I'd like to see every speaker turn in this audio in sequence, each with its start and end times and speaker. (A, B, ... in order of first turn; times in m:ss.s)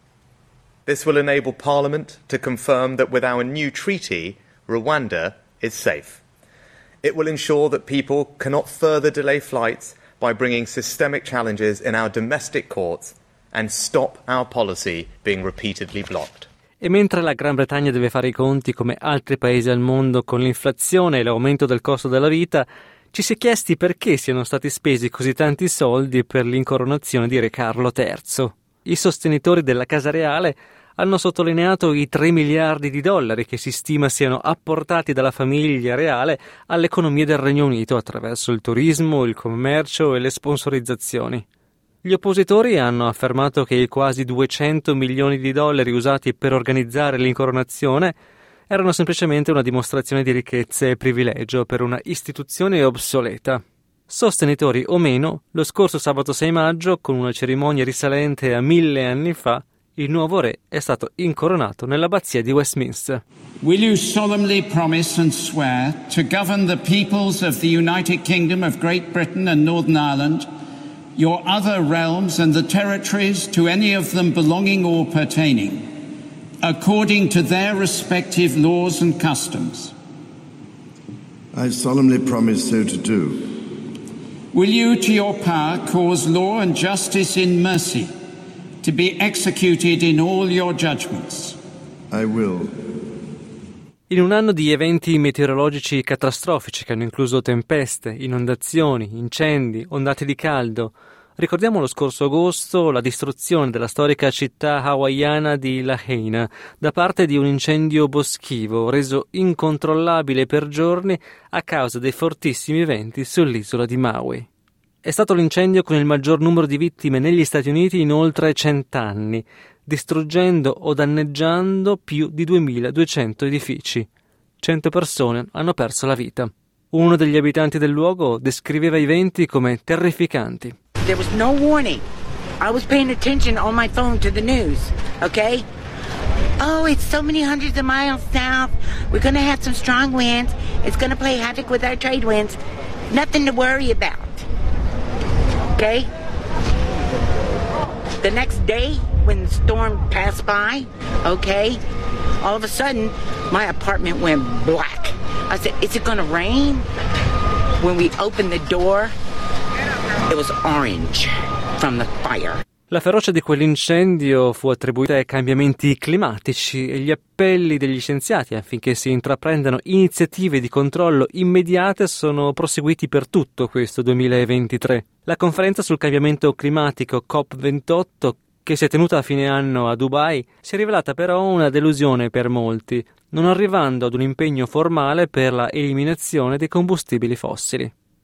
0:00.8-0:06.2 A
0:07.0-0:16.5 A
0:16.8-0:41.4 B
0:42.0-0:48.1 B
0:48.7-1:03.2 B
1:03.6-1:10.5 C
1:11.2-1:15.9 C
1:16.6-1:19.9 C
1:21.5-1:23.7 D
1:24.5-1:28.1 C
1:28.8-1:31.6 C
1:32.1-1:32.7 D
1:34.1-1:54.5 B
1:55.0-2:04.1 B
2:04.6-2:10.8 B
2:11.1-2:12.0 E
2:12.6-2:15.6 E
2:16.6-2:22.6 E
2:23.1-2:24.4 E
2:25.7-2:26.1 E
2:28.2-2:31.8 E
2:32.4-2:36.8 E
2:37.8-2:39.1 E
2:40.3-2:42.6 E
2:42.9-3:07.9 B